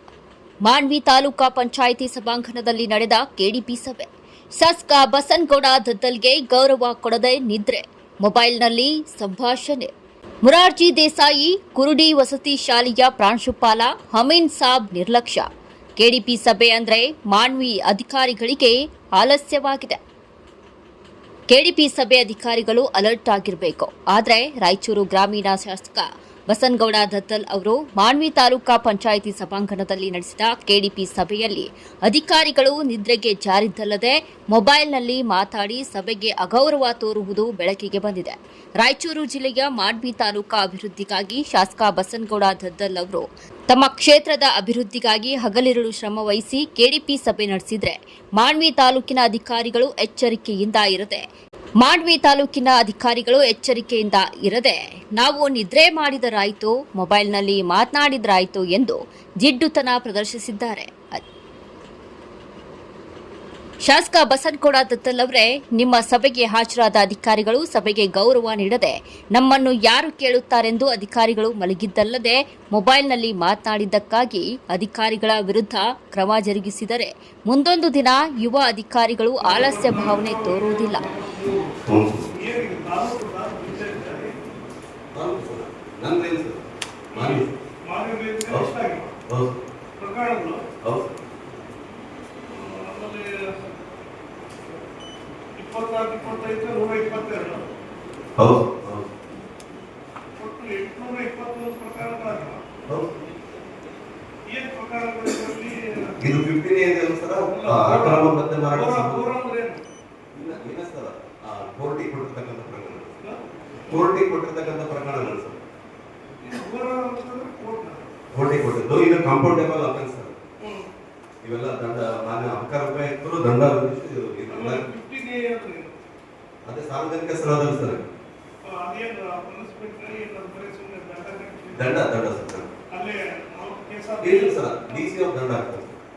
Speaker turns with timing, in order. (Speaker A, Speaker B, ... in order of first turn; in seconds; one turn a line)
Speaker A: 0.6-9.9
Speaker A: 10.4-15.5
Speaker A: 16.0-20.0
Speaker A: 21.5-51.2
Speaker A: 51.8-61.2
Speaker A: 63.8-81.0
Speaker B: 79.4-81.7
Speaker C: 81.8-82.3
Speaker B: 82.3-84.3
Speaker C: 85.1-87.5
Speaker B: 87.1-89.1
Speaker C: 89.3-89.6
Speaker B: 90.0-90.6
Speaker C: 90.8-91.2
Speaker B: 92.5-93.6
Speaker B: 95.6-97.6
Speaker C: 98.4-99.1
Speaker B: 100.4-102.6
Speaker C: 102.9-103.1
Speaker B: 104.5-106.1
Speaker C: 106.2-109.2
Speaker B: 107.5-109.8
Speaker C: 110.3-113.1
Speaker B: 113.2-114.0
Speaker C: 113.9-115.6
Speaker B: 116.4-118.0
Speaker C: 118.3-120.3
Speaker B: 120.6-120.9
Speaker C: 121.4-124.8
Speaker B: 124.5-125.9
Speaker C: 126.7-128.1
Speaker B: 128.6-132.0
Speaker C: 131.7-132.7
Speaker B: 132.9-135.0
Speaker C: 134.2-136.0